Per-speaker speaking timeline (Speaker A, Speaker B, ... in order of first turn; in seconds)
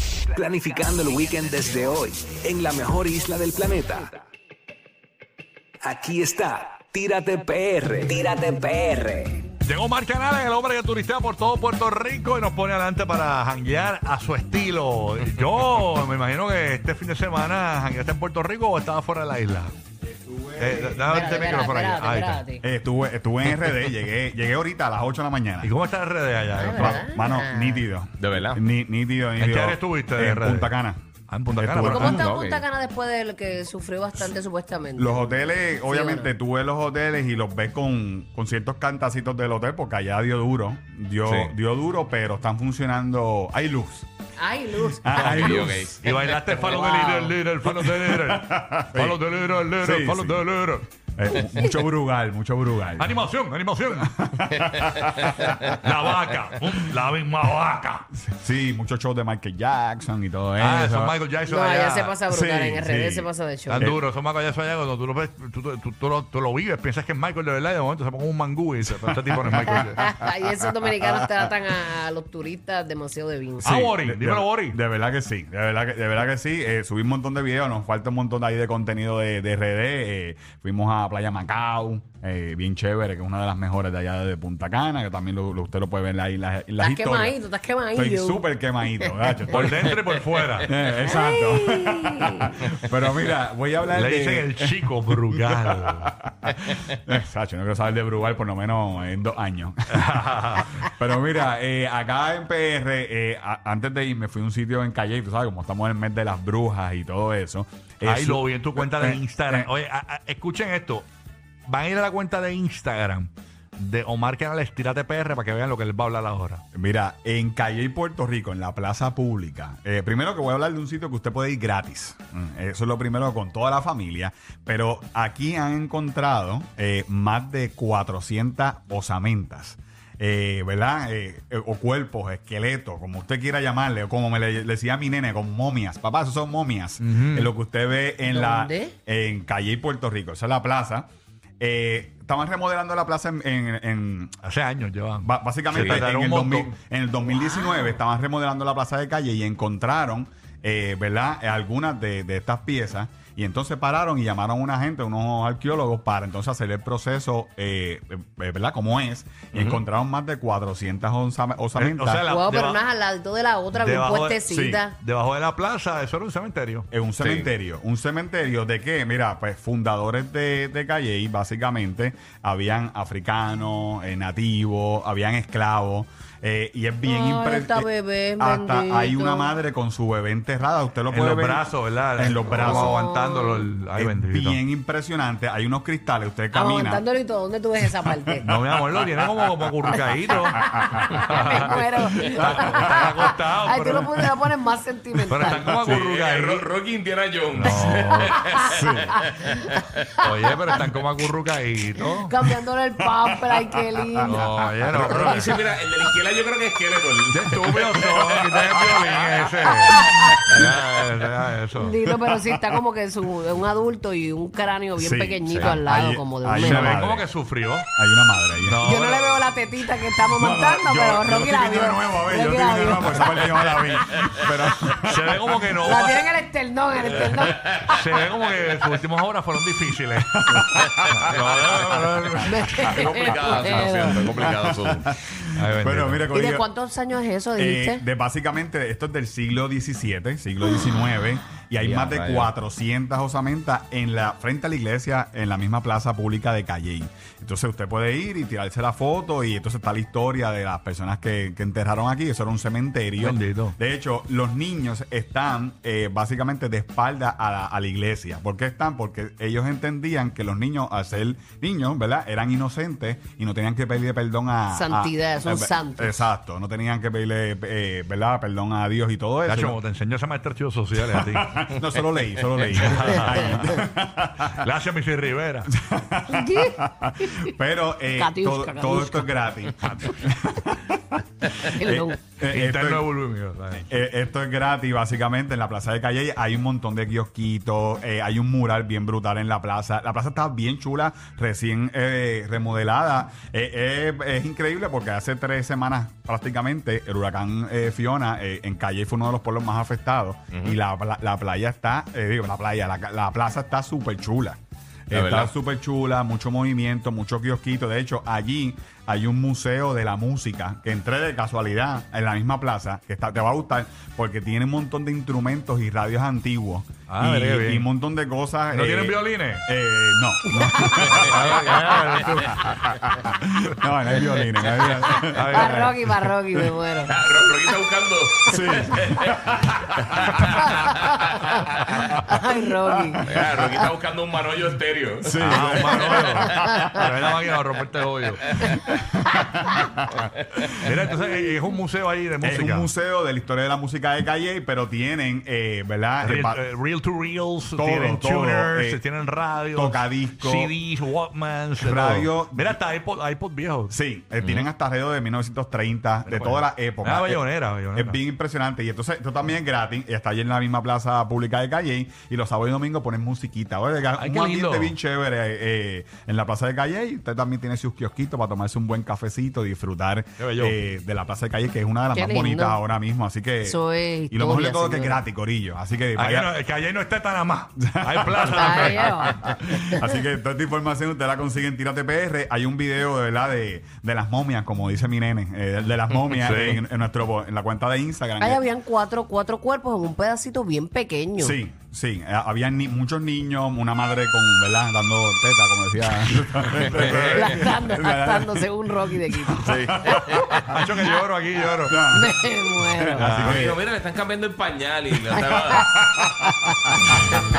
Speaker A: 0.3-4.2, 5.8-9.5
Speaker B: 9.6-19.7, 20.6-22.4, 25.6-27.0, 29.4-30.8, 31.3-32.2, 46.0-50.9, 53.0-54.1, 55.6-58.1, 60.6-62.2, 63.7-70.0, 73.6-74.8, 89.5-90.8, 93.9-96.2, 99.9-100.8, 108.0-111.0, 111.7-116.6, 137.0-137.5, 144.4-146.7, 161.8-162.8, 163.7-164.4, 165.0-166.9, 181.1-184.6, 188.4-194.3, 195.3-196.7, 197.5-198.4, 200.2-202.3, 204.2-205.6, 207.3-212.0, 216.6-217.9, 218.6-219.5, 224.9-226.2, 227.6-232.9, 235.5-236.3, 253.2-253.8, 269.5-271.8, 272.8-273.9, 274.4-275.7, 279.8-280.1, 282.5-283.9, 317.1-317.9, 318.7-319.7, 321.2-322.7, 325.1-325.9, 335.4-338.5, 340.6-342.9, 346.2-354.0, 356.3-358.2, 370.4-370.8, 376.2-379.3, 386.3-386.8, 396.4-397.7, 400.6-402.0, 403.2-403.6
Speaker C: 20.0-21.6, 22.6-25.7, 26.6-31.0, 31.5-32.3, 35.0-44.1, 45.0-46.0, 47.6-49.2, 49.8-50.5, 51.2-53.2, 54.0-55.8, 58.2-61.2, 62.3-64.0, 68.9-71.3, 73.6-87.4, 87.9-89.9, 90.7-94.8, 95.3-100.0, 100.8-109.7, 116.7-141.1, 141.6-144.4, 145.2-162.2, 164.5-164.8, 166.9-183.0, 183.9-187.0, 188.1-188.7, 190.6-191.0, 192.4-192.8, 198.7-199.2, 212.1-212.7, 215.0-217.3, 217.9-218.8, 220.1-225.5, 230.3-231.3, 231.9-232.8, 234.1-236.7, 237.6-269.8, 271.0-274.6, 275.7-281.0, 281.8-283.1, 283.9-326.9, 328.5-330.8, 332.4-333.7, 335.2-337.2, 338.8-340.3, 342.4-346.6, 347.7-349.0, 349.7-350.7, 351.8-352.8, 353.9-373.8, 374.3-376.5, 377.8-388.6, 391.4-398.7, 399.3-401.0, 401.9-402.3, 403.0-403.8, 405.9-407.4
Speaker D: 20.9-22.6, 26.6-27.9, 31.9-36.3, 44.4-45.4, 46.4-47.4, 61.5-63.9, 69.7-73.7, 86.8-89.4, 91.0-92.7, 138.2-138.9, 162.3-165.0, 177.0-179.5, 182.4-183.7, 186.5-188.5, 189.9-195.8, 199.1-199.8, 202.2-204.4, 210.0-210.4, 211.8-217.0, 218.8-223.6, 225.8-227.9, 232.4-234.2, 236.3-238.0, 264.7-266.2, 276.3-277.6, 278.1-279.5, 281.6-282.2, 320.8-321.1, 325.0-327.2, 332.1-333.2, 336.6-336.9, 372.1-372.8, 373.6-375.2, 378.5-380.1, 388.4-391.6, 397.3-399.8, 402.1-403.3, 405.4-406.9
Speaker E: 28.2-28.6, 32.0-32.6, 41.3-41.5, 45.1-46.0, 145.7-146.0, 159.5-159.8, 167.2-167.5, 195.8-200.0, 204.3-208.5, 215.5-215.8, 227.1-227.9, 231.3-231.8, 232.9-235.2, 241.8-242.5, 305.1-305.5, 327.1-332.2, 333.2-336.7, 354.4-354.7, 364.2-364.9, 396.9-397.3, 399.6-400.5, 403.3-405.9